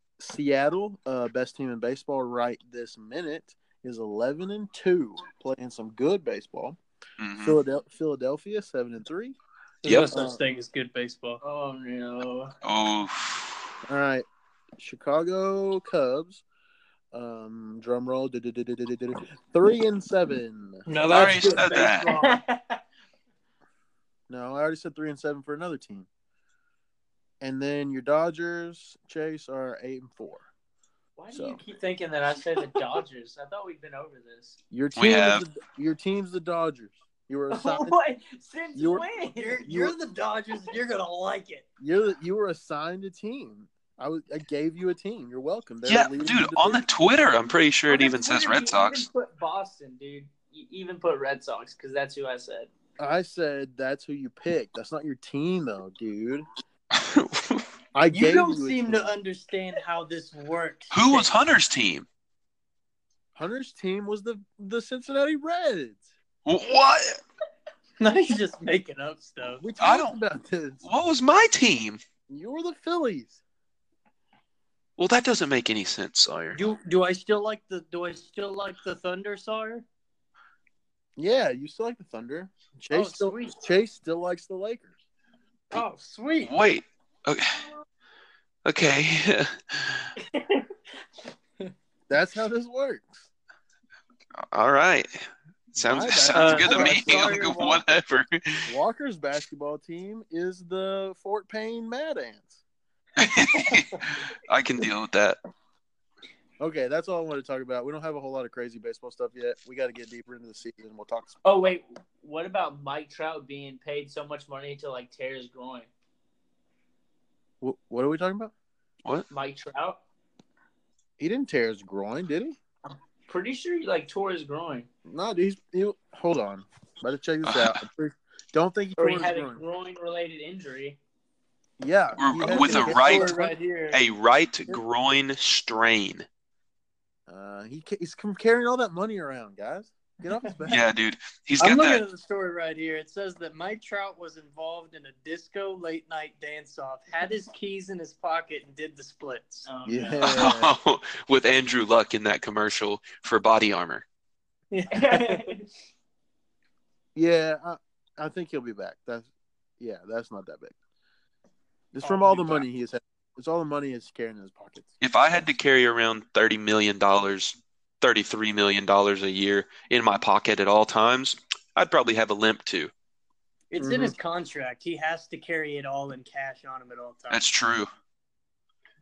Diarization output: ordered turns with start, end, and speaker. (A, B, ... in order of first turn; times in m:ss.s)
0:00.2-0:06.8 A
0:07.2-0:07.6 B
0:07.4-0:09.4 A
0:09.8-0:11.4 C
0:10.1-0:10.4 A
0:11.4-0:12.5 D
0:12.6-0:13.7 B
0:13.9-0:14.3 A
0:14.8-0:16.4 A
0:17.1-0:21.5 A
0:20.9-0:22.4 C
0:21.1-0:22.1 B
0:21.8-0:22.8 D
0:24.3-0:26.1 A
0:27.4-0:30.5 A
0:31.2-0:34.6 D
0:31.3-0:31.6 A
0:34.7-0:38.0 A
0:35.0-0:35.4 B
0:37.5-0:39.6 D
0:38.8-0:39.1 A
0:39.4-0:41.6 C
0:39.6-0:40.0 A
0:41.8-0:46.8 A
0:45.8-0:49.1 B
0:47.9-0:52.7 D
0:53.0-0:56.5 A
0:56.9-0:57.7 B
0:57.9-0:59.1 A
0:58.1-1:01.3 C
1:00.9-1:02.1 B
1:03.4-1:06.0 A
1:06.5-1:07.2 B
1:08.0-1:09.6 C
1:09.6-1:10.8 A
1:09.8-1:10.2 B
1:10.8-1:12.0 B
1:12.3-1:13.4 A
1:15.0-1:16.6 B
1:16.5-1:19.8 C
1:21.2-1:24.9 A
1:22.9-1:23.6 C
1:25.7-1:26.5 C
1:26.4-1:27.6 B
1:28.6-1:30.1 B
1:32.1-1:33.3 A
1:34.4-1:35.1 B
1:35.8-1:38.7 B
1:35.8-1:37.6 A
1:36.3-1:37.8 C
1:38.7-1:42.6 A
1:43.2-1:45.4 B
1:46.6-1:51.4 A
1:51.4-1:55.9 D
1:57.6-1:58.5 A
1:59.3-2:00.0 D
2:01.2-2:02.6 A
2:03.3-2:04.9 D
2:05.1-2:09.6 A
2:07.4-2:07.8 B
2:09.0-2:11.0 D
2:11.8-2:13.6 A
2:12.2-2:16.2 B
2:12.4-2:14.0 C
2:17.3-2:20.8 A
2:20.7-2:22.0 B
2:21.6-2:29.7 C
2:29.7-2:30.4 D
2:29.9-2:30.7 A
2:30.2-2:34.0 B
2:34.7-2:35.5 C
2:34.9-2:35.7 D
2:37.2-2:39.3 A
2:39.8-2:40.8 A
2:41.9-2:44.9 A
2:42.0-2:42.7 C
2:45.0-2:52.9 B
2:53.7-2:57.4 C
2:53.8-2:54.1 A
2:57.3-2:57.9 B